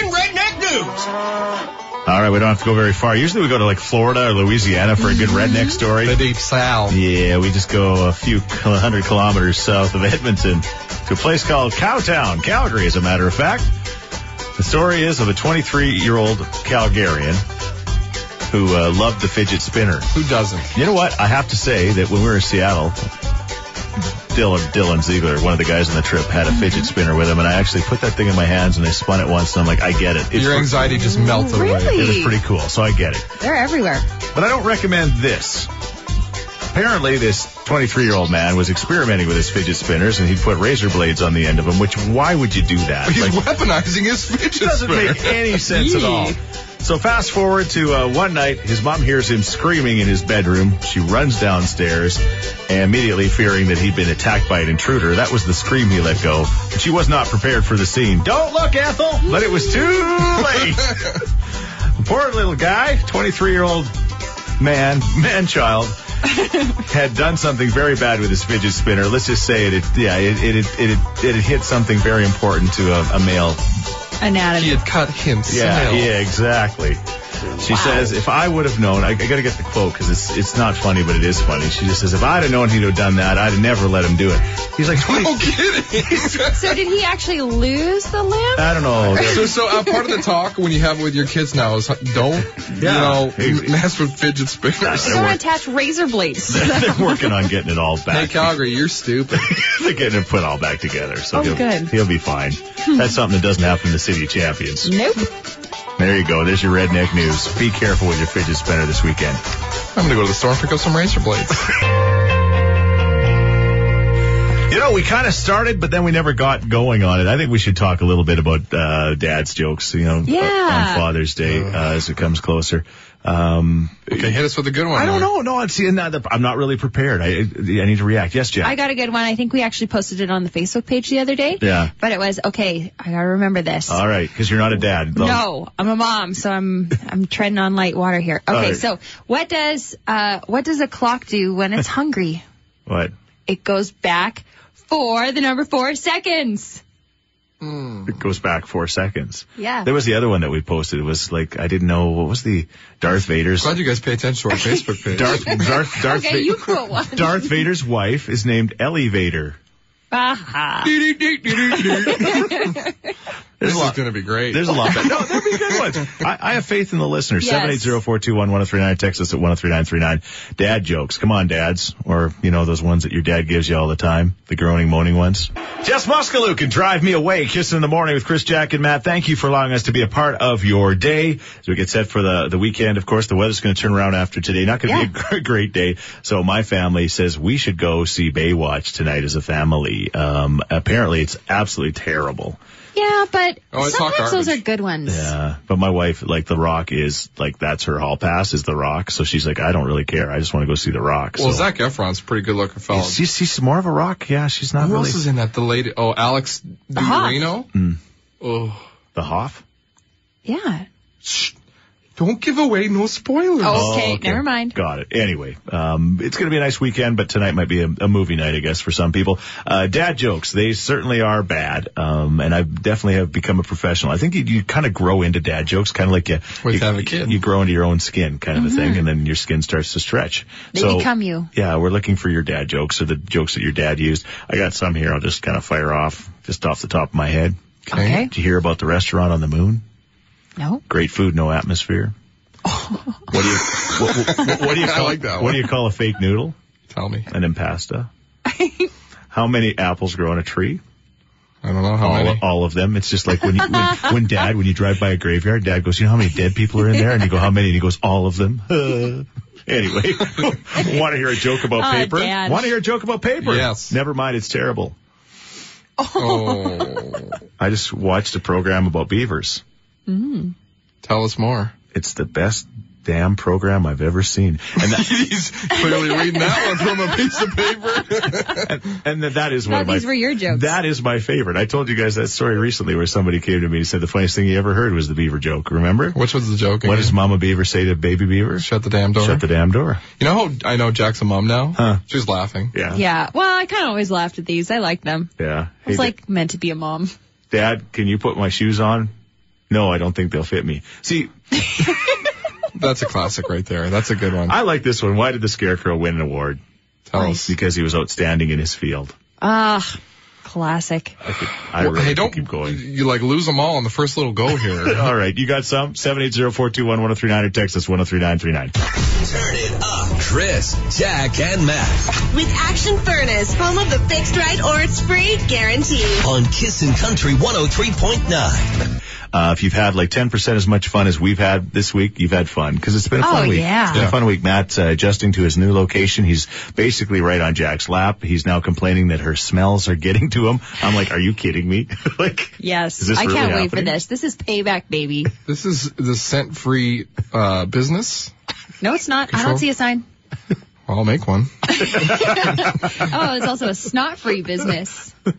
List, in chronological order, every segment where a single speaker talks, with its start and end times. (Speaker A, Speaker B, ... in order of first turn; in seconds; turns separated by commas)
Speaker A: 2.0-6.2, Speaker B: 5.1-5.7, Speaker C: 6.0-7.0, Speaker A: 6.9-13.7, Speaker A: 14.6-17.4, Speaker A: 18.5-20.1, Speaker C: 20.1-20.7, Speaker A: 20.7-23.1, Speaker A: 24.3-31.0, Speaker C: 30.3-32.1, Speaker B: 31.0-32.4, Speaker A: 31.8-33.3, Speaker B: 33.4-34.1, Speaker A: 34.3-35.7, Speaker A: 36.7-43.4, Speaker C: 43.0-45.5, Speaker A: 44.5-61.2, Speaker B: 45.7-46.4, Speaker A: 62.0-63.9, Speaker A: 64.6-66.0, Speaker A: 66.7-73.6, Speaker B: 74.2-74.8, Speaker C: 74.5-76.1, Speaker A: 75.5-77.0, Speaker A: 77.5-85.5, Speaker B: 77.7-78.1, Speaker C: 85.0-86.8, Speaker B: 86.5-90.1, Speaker A: 88.5-89.5, Speaker C: 89.2-95.3, Speaker A: 92.8-93.8, Speaker A: 94.8-95.4, Speaker B: 95.0-97.3, Speaker A: 96.5-98.6, Speaker C: 98.1-99.7, Speaker A: 99.3-104.9, Speaker B: 101.3-101.9, Speaker B: 104.8-105.3, Speaker A: 106.0-109.4, Speaker C: 109.9-111.8, Speaker A: 114.7-124.4, Speaker B: 120.2-121.1, Speaker C: 121.5-121.8, Speaker C: 124.1-125.3, Speaker A: 124.9-128.8, Speaker B: 128.6-134.0, Speaker A: 131.6-131.9, Speaker A: 133.9-135.4, Speaker B: 135.1-142.4, Speaker A: 138.5-138.8, Speaker A: 142.9-143.1, Speaker B: 143.5-146.8, Speaker C: 147.6-148.1, Speaker A: 148.1-153.8, Speaker B: 149.6-149.9, Speaker C: 153.6-155.9, Speaker B: 154.6-157.6, Speaker A: 155.1-159.6, Speaker B: 160.1-163.1, Speaker C: 160.8-162.8, Speaker A: 163.6-192.6, Speaker C: 163.6-165.9, Speaker B: 167.4-168.0, Speaker B: 192.9-195.3, Speaker C: 193.7-194.6, Speaker A: 195.1-201.7, Speaker C: 201.4-203.2, Speaker A: 202.9-205.2, Speaker C: 204.8-207.7, Speaker B: 206.9-207.5, Speaker A: 207.7-208.0, Speaker C: 208.4-208.8, Speaker A: 209.1-209.6, Speaker B: 210.4-210.8, Speaker C: 211.2-211.5, Speaker C: 212.2-214.0, Speaker B: 213.6-214.8, Speaker A: 213.7-237.6, Speaker C: 226.6-227.4, Speaker B: 228.5-229.0, Speaker B: 230.7-231.5, Speaker C: 237.8-238.2, Speaker B: 237.9-238.3, Speaker A: 238.1-239.8, Speaker B: 240.6-240.8, Speaker A: 240.9-242.1, Speaker B: 242.6-243.4, Speaker A: 243.3-246.6, Speaker C: 243.8-245.7, Speaker C: 246.9-247.3, Speaker A: 247.3-248.1, Speaker B: 248.4-248.9, Speaker A: 249.3-250.8, Speaker C: 251.6-252.4, Speaker A: 252.0-264.9, Speaker B: 261.7-262.7, Speaker C: 263.4-263.9, Speaker B: 266.0-267.2, Speaker C: 266.1-267.4, Speaker A: 267.6-269.6, Speaker B: 270.1-270.5, Speaker C: 271.0-271.7, Speaker A: 271.9-275.1, Speaker C: 274.8-278.7, Speaker B: 275.8-276.6, Speaker A: 278.6-286.2, Speaker B: 279.6-280.7, Speaker C: 286.1-287.2, Speaker A: 286.8-290.0, Speaker C: 288.6-289.4, Speaker C: 290.2-292.7, Speaker A: 291.8-292.0, Speaker A: 292.7-293.0, Speaker B: 292.9-295.3, Speaker A: 295.4-296.1, Speaker B: 295.9-297.1, Speaker A: 297.5-299.1, Speaker A: 299.7-301.9, Speaker C: 302.7-304.6, Speaker A: 304.5-306.6, Speaker C: 307.1-307.5, Speaker B: 307.2-307.4, Speaker A: 307.3-309.1, Speaker B: 309.4-311.2, Speaker A: 311.2-312.8, Speaker C: 311.8-315.1, Speaker A: 314.9-318.7, Speaker D: 319.2-322.1, Speaker E: 322.3-326.2, Speaker D: 326.2-328.8, Speaker A: 329.3-344.0, Speaker B: 333.2-334.1, Speaker B: 342.6-345.3, Speaker C: 345.4-348.3, Speaker B: 348.8-350.0, Speaker C: 349.3-349.6, Speaker C: 350.9-352.2, Speaker B: 351.7-355.1